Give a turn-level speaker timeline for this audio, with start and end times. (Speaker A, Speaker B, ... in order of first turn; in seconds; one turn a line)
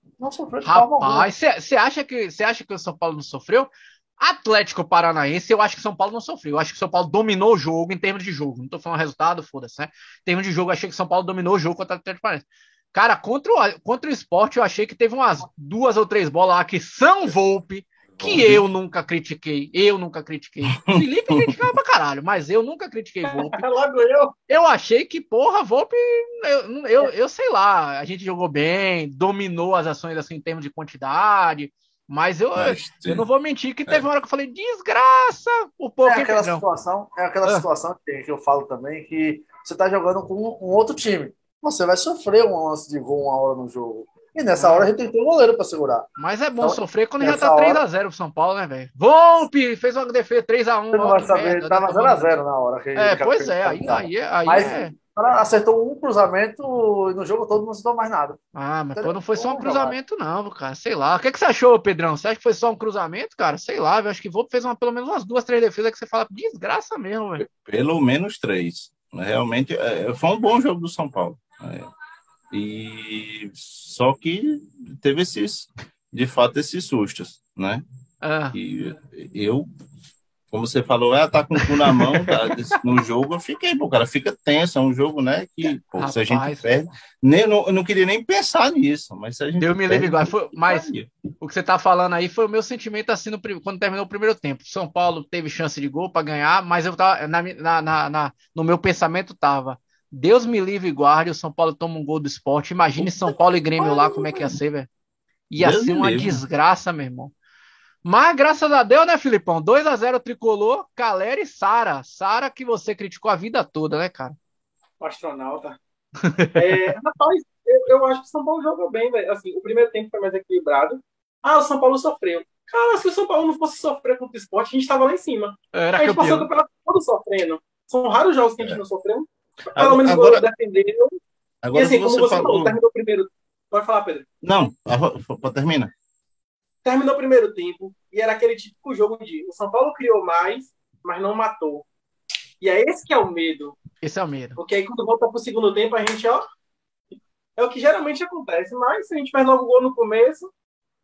Speaker A: 0.2-1.3
Speaker B: 0.6-23.6
Speaker C: 18.1-18.6
Speaker C: 20.8-21.5
Speaker D: 23.2-24.4
Speaker B: 24.5-36.6
Speaker C: 32.6-33.3
Speaker A: 36.0-46.1
Speaker B: 44.5-44.9
Speaker B: 46.2-52.3
Speaker A: 46.6-47.8
Speaker A: 50.9-58.4
Speaker B: 53.0-54.9
Speaker B: 58.5-67.4
Speaker A: 59.0-60.0
Speaker C: 67.4-71.9
Speaker C: 72.5-77.8
Speaker B: 78.2-78.6
Speaker C: 78.5-79.7
Speaker C: 80.5-91.1
Speaker B: 81.7-82.8
Speaker B: 86.0-86.7
Speaker B: 89.6-90.9
Speaker B: 91.4-104.9
Speaker A: 103.8-104.3
Speaker B: 105.5-107.3
Speaker C: 105.6-106.4
Speaker B: 108.0-114.4
Speaker D: 115.0-115.8
Speaker B: 116.2-116.9
Speaker D: 116.6-131.2
Speaker B: 125.7-126.5
Speaker C: 129.8-130.5
Speaker C: 131.6-132.8
Speaker D: 131.7-134.3
Speaker C: 134.4-135.9
Speaker D: 136.8-141.8
Speaker D: 142.6-143.8
Speaker B: 144.0-144.6
Speaker D: 144.6-146.4
Speaker D: 147.6-150.5